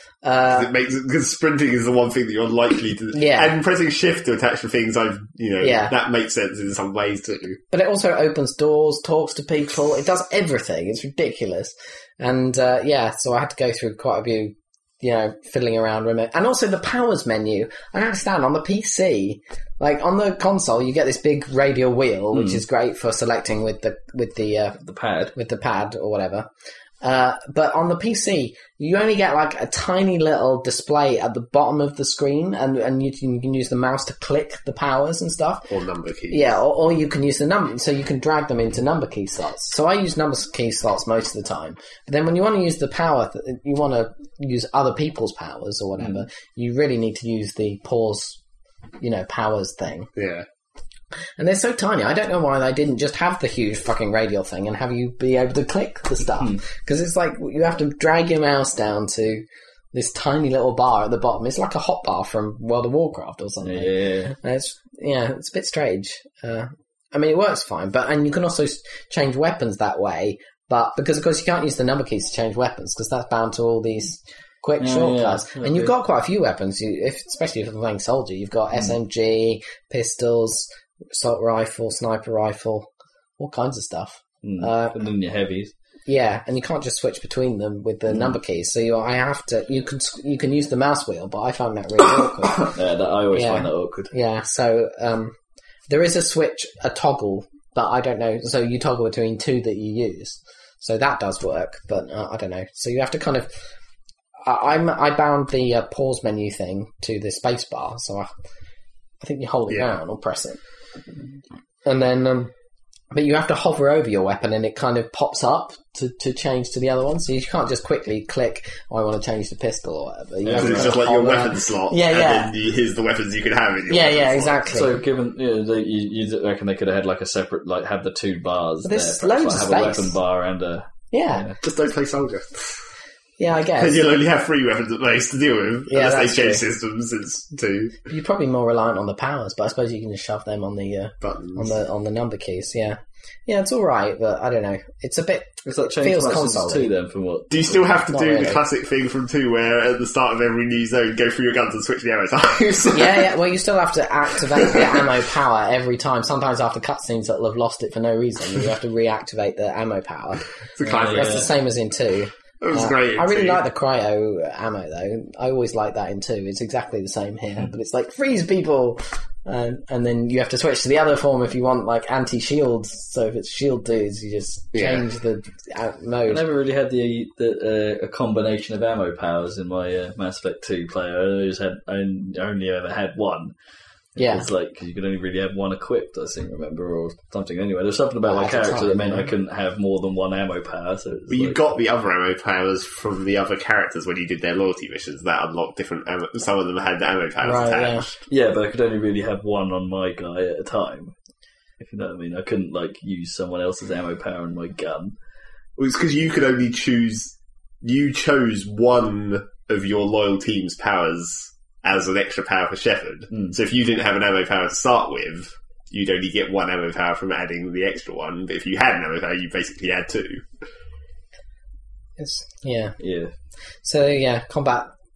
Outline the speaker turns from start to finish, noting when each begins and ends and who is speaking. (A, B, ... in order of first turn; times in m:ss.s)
0:00.2-0:00.7 A
0:00.5-0:07.6 B
0:03.1-0:03.6 A
0:05.6-0:05.9 A
0:07.7-0:24.8 A
0:22.3-0:22.6 C
0:24.8-0:25.3 C
0:25.3-0:26.5 A
0:27.0-0:35.7 A
0:35.7-0:36.4 B
0:36.3-0:48.4 A
0:49.0-0:50.1 A
0:50.2-0:50.4 B
0:51.4-1:22.9 A
1:03.6-1:04.3 C
1:14.8-1:15.9 C
1:23.4-1:25.0 A
1:24.4-1:25.7 C
1:26.1-1:32.7 A
1:32.2-1:34.1 C
1:33.3-1:35.3 A
1:35.9-1:43.5 A
1:44.4-1:48.3 A
1:49.2-1:50.6 A
1:51.8-1:52.5 A
1:53.1-2:02.5 A
2:00.4-2:01.0 C
2:00.5-2:04.6 B
2:03.9-2:04.9 A
2:04.7-2:11.6 C
2:08.8-2:10.1 A
2:11.1-2:11.5 A
2:11.6-2:12.8 B
2:13.4-2:14.0 A
2:13.8-2:18.0 B
2:15.9-2:16.6 A
2:18.1-2:26.9 A
2:21.2-2:21.7 B
2:25.6-2:28.0 C
2:27.5-2:33.3 B
2:28.1-2:28.6 A
2:32.9-2:56.4 A
2:34.6-2:35.0 B
2:40.8-2:41.5 B
2:40.9-2:41.5 C
2:42.6-2:43.6 B
2:54.7-2:55.0 B
2:56.3-3:03.5 C
3:04.1-3:11.6 C
3:04.2-3:04.5 A
3:08.3-3:09.3 A
3:11.3-3:18.2 B
3:17.4-3:18.1 A
3:18.3-3:21.1 C
3:21.8-3:25.1 C
3:25.8-3:40.4 B
3:42.2-3:43.0 A
3:43.0-3:43.3 C
3:43.8-3:44.9 A